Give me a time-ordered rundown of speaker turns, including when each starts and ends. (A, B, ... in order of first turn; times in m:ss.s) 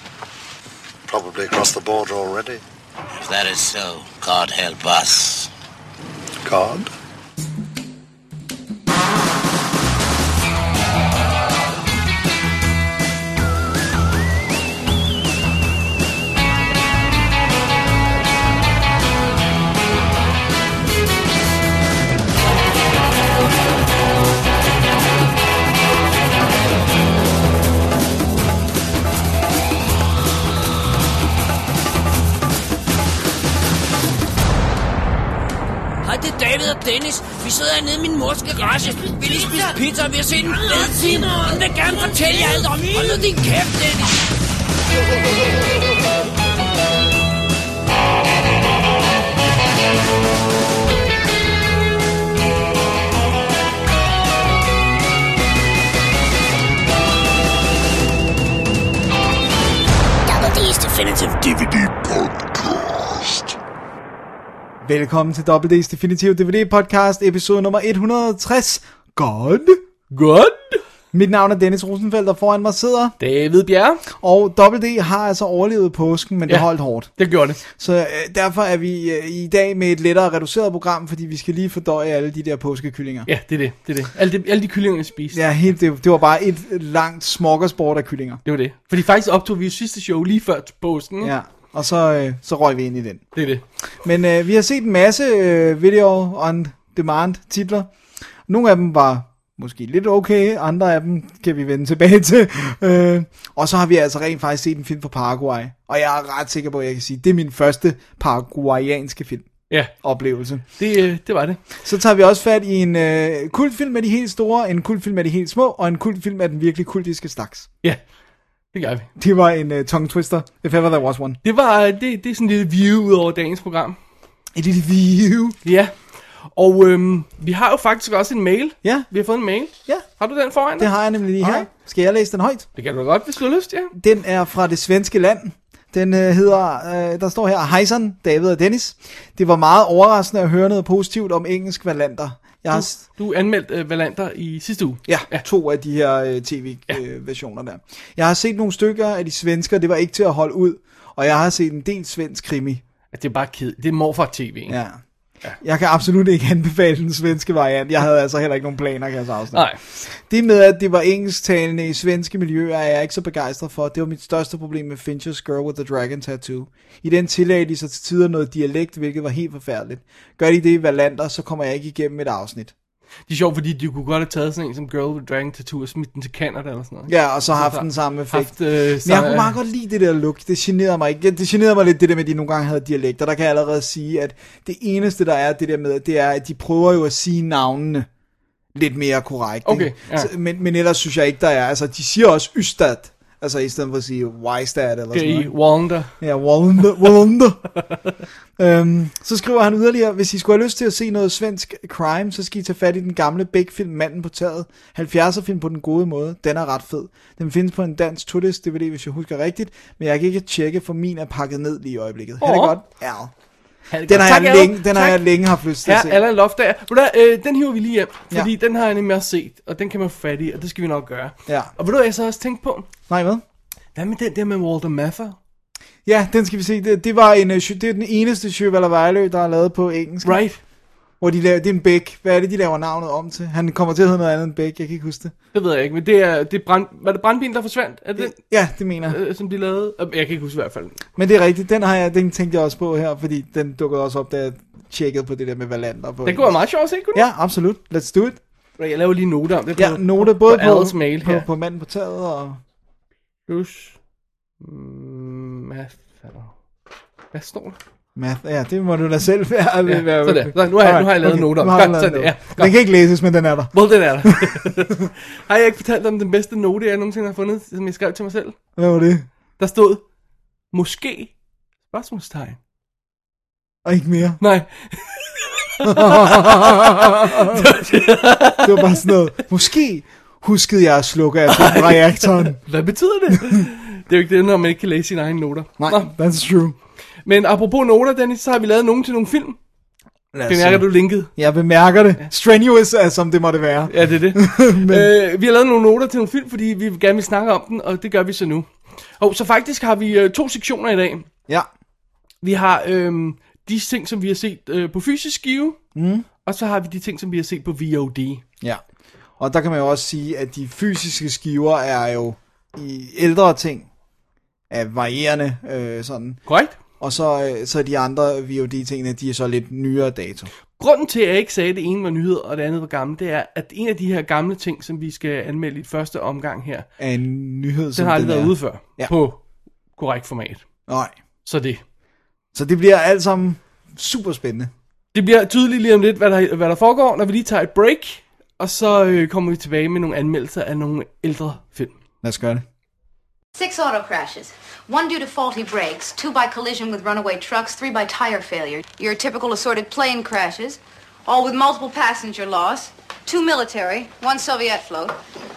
0:01.1-0:02.6 A
0:03.1-0:05.5 B
0:06.4-0:06.9 A
0:36.0-0:44.3 C
1:00.3-1:03.6 B
1:04.8-1:09.8 D
1:10.1-1:10.8 E
1:11.1-1:13.2 D
1:13.2-1:14.0 E
1:14.2-1:17.1 D
1:16.5-1:17.6 E
1:17.6-1:23.3 D
1:23.3-1:25.4 E
1:25.3-1:28.4 D
1:28.4-1:31.3 E
1:31.2-1:33.2 D
1:33.4-1:33.6 E
1:34.0-1:37.9 D
1:38.5-1:49.5 D
1:50.0-1:50.6 D
1:50.8-1:51.6 E
1:51.8-1:57.7 D
1:58.7-1:59.1 E
1:59.2-2:01.4 D
2:01.4-2:04.0 E
2:04.5-2:05.6 D
2:05.6-2:06.0 E
2:06.5-2:11.7 E
2:08.8-2:09.1 D
2:10.8-2:12.7 D
2:12.8-2:13.9 E
2:14.0-2:23.0 D
2:22.7-2:25.4 E
2:25.1-2:32.8 D
2:33.1-2:34.8 E
2:34.7-2:35.0 D
2:35.6-2:52.7 D
2:39.5-2:39.8 E
2:53.3-2:59.6 E
2:57.1-3:08.1 D
3:08.8-3:15.5 D
3:09.6-3:10.3 E
3:15.1-3:16.2 E
3:16.2-3:17.6 D
3:18.6-3:33.3 D
3:32.4-3:32.8 E
3:33.9-3:35.2 E
3:34.1-3:36.2 D
3:35.8-3:42.9 E
3:41.5-3:41.7 D
3:43.1-3:43.4 D
3:44.0-3:45.4 E
3:46.1-3:50.4 D
3:50.2-3:50.6 E
3:51.2-3:55.3 D
3:55.5-3:58.4 E
3:58.2-3:59.2 D
3:59.1-4:01.0 E
4:01.2-4:06.5 D
4:06.2-4:07.2 E
4:07.2-4:08.4 D
4:08.8-4:11.5 E
4:09.8-4:12.6 D
4:13.5-4:14.0 E
4:14.6-4:16.5 E
4:17.3-4:17.8 E
4:18.2-4:24.7 D
4:19.9-4:22.7 E
4:23.7-4:28.6 E
4:28.8-4:29.3 D
4:29.6-4:30.0 E
4:30.7-4:31.3 E
4:31.9-4:32.6 E
4:33.8-4:34.4 D
4:34.4-4:39.1 E
4:35.8-4:37.7 D
4:38.6-4:42.6 D
4:41.5-4:46.1 E
4:45.8-4:46.8 D
4:47.3-4:49.6 E
4:50.3-4:55.1 D
4:50.5-4:51.3 E
4:53.9-5:01.3 E
5:02.4-5:05.8 E
5:06.0-5:06.3 D
5:06.4-5:08.4 E
5:09.4-5:13.9 D
5:14.7-5:16.4 D
5:16.5-5:16.8 E
5:17.0-5:20.5 D
5:20.8-5:26.9 E
5:27.0-5:29.1 D
5:28.0-5:29.4 E
5:30.0-5:30.6 E
5:30.9-5:31.2 D
5:31.4-5:31.8 E
5:32.5-5:34.7 D
5:35.1-5:42.0 E
5:42.2-5:42.6 D
5:43.6-5:55.2 F